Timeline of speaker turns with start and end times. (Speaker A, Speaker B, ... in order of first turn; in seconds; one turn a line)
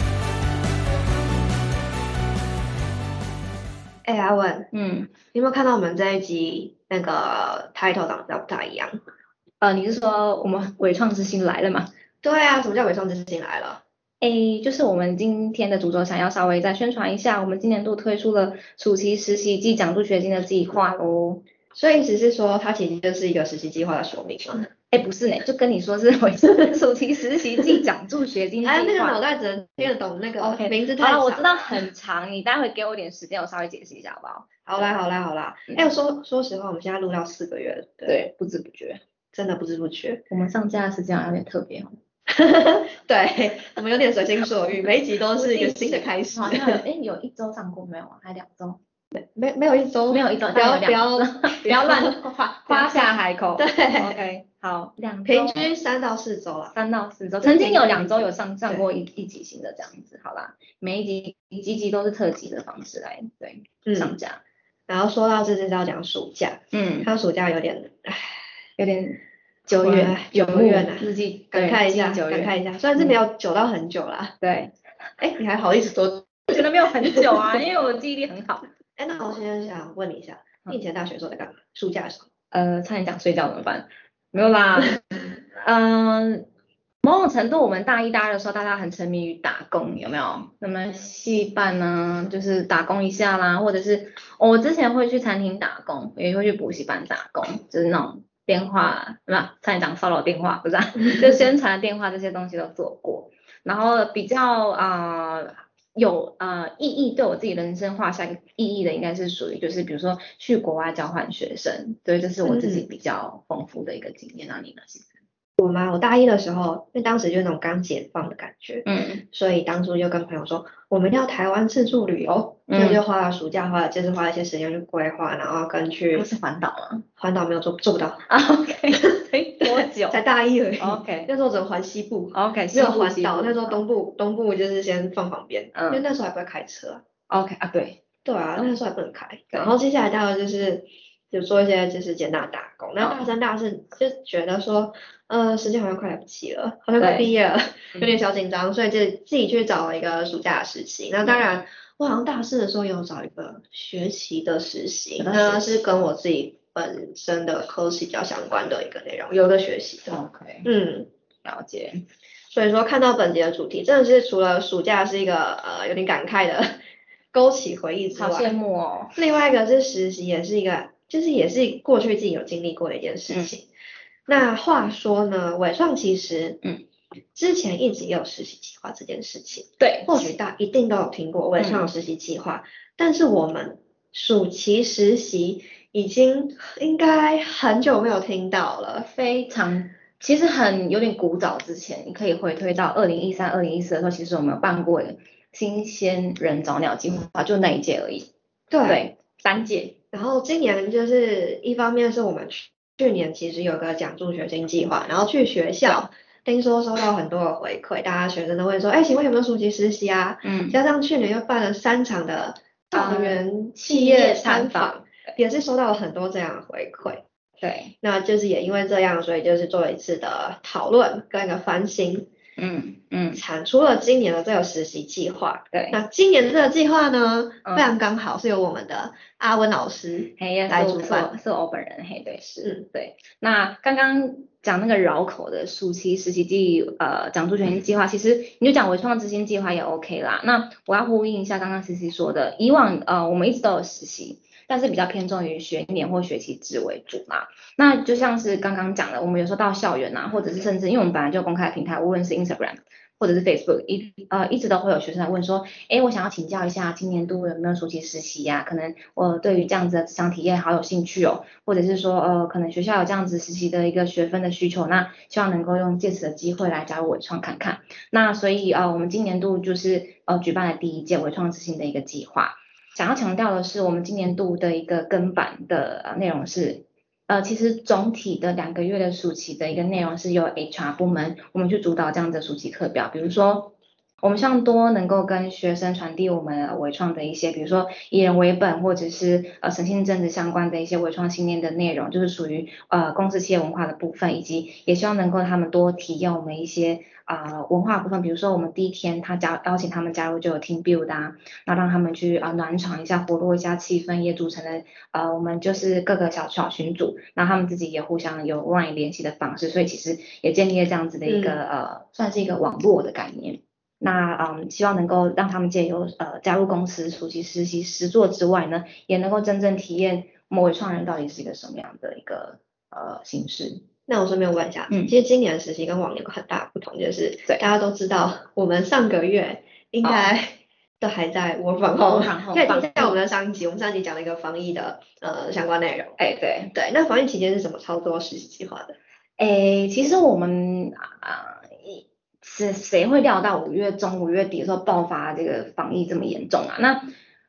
Speaker A: 4.0-4.7
Speaker B: 4.7-5.1
Speaker A: 5.3-9.0
Speaker B: 9.6-11.9
Speaker A: 12.2-13.8
Speaker B: 14.2-21.4
Speaker A: 21.8-24.7
Speaker B: 24.9-29.2
Speaker A: 28.6-31.8
Speaker B: 30.4-34.5
Speaker A: 34.7-38.2
Speaker B: 38.1-39.0
Speaker A: 39.3-40.2
Speaker B: 40.3-42.0
Speaker A: 42.3-46.8
Speaker B: 45.4-48.8
Speaker A: 49.2-53.0
Speaker B: 50.1-55.8
Speaker A: 53.6-54.2
Speaker A: 55.2-56.8
Speaker B: 56.7-64.4
Speaker A: 57.4-58.8
Speaker A: 63.9-64.1
Speaker A: 64.9-68.3
Speaker B: 66.7-67.1
Speaker B: 68.8-73.2
Speaker A: 69.8-74.4
Speaker B: 74.4-74.7
Speaker A: 75.2-76.6
Speaker B: 76.5-78.7
Speaker A: 79.0-82.3
Speaker B: 82.5-85.0
Speaker B: 85.6-86.5
Speaker B: 87.0-115.1
Speaker A: 112.4-112.9
Speaker A: 115.6-126.3
Speaker B: 118.8-119.2
Speaker B: 122.7-123.0
Speaker B: 126.2-127.0
Speaker A: 127.2-128.2
Speaker B: 128.3-130.2
Speaker A: 129.0-137.0
Speaker B: 130.8-131.3
Speaker B: 132.3-133.8
Speaker B: 135.7-136.0
Speaker B: 137.3-138.0
Speaker A: 138.2-161.1
Speaker B: 143.0-143.3
Speaker B: 147.0-147.3
Speaker B: 151.2-151.6
Speaker B: 155.2-155.8
Speaker B: 160.1-160.7
Speaker B: 161.4-162.1
Speaker A: 162.5-166.8
Speaker A: 167.3-168.5
Speaker B: 168.2-169.2
Speaker A: 169.2-173.7
Speaker A: 174.3-176.6
Speaker A: 177.3-189.1
Speaker B: 179.8-180.4
Speaker B: 181.6-181.9
Speaker B: 189.0-198.3
Speaker A: 198.7-199.0
Speaker B: 198.8-199.9
Speaker A: 200.1-217.2
Speaker B: 210.4-210.8
Speaker B: 212.9-215.4
Speaker B: 217.6-217.9
Speaker A: 218.0-222.3
Speaker B: 222.6-223.4
Speaker A: 223.3-231.3
Speaker B: 225.7-226.0
Speaker B: 227.7-227.9
Speaker B: 230.4-323.8
Speaker A: 311.3-311.6
Speaker A: 324.1-336.2
Speaker B: 324.9-325.1
Speaker B: 330.0-330.3
Speaker B: 332.0-333.2
Speaker B: 336.2-336.7
Speaker A: 336.7-339.0
Speaker B: 339.4-347.1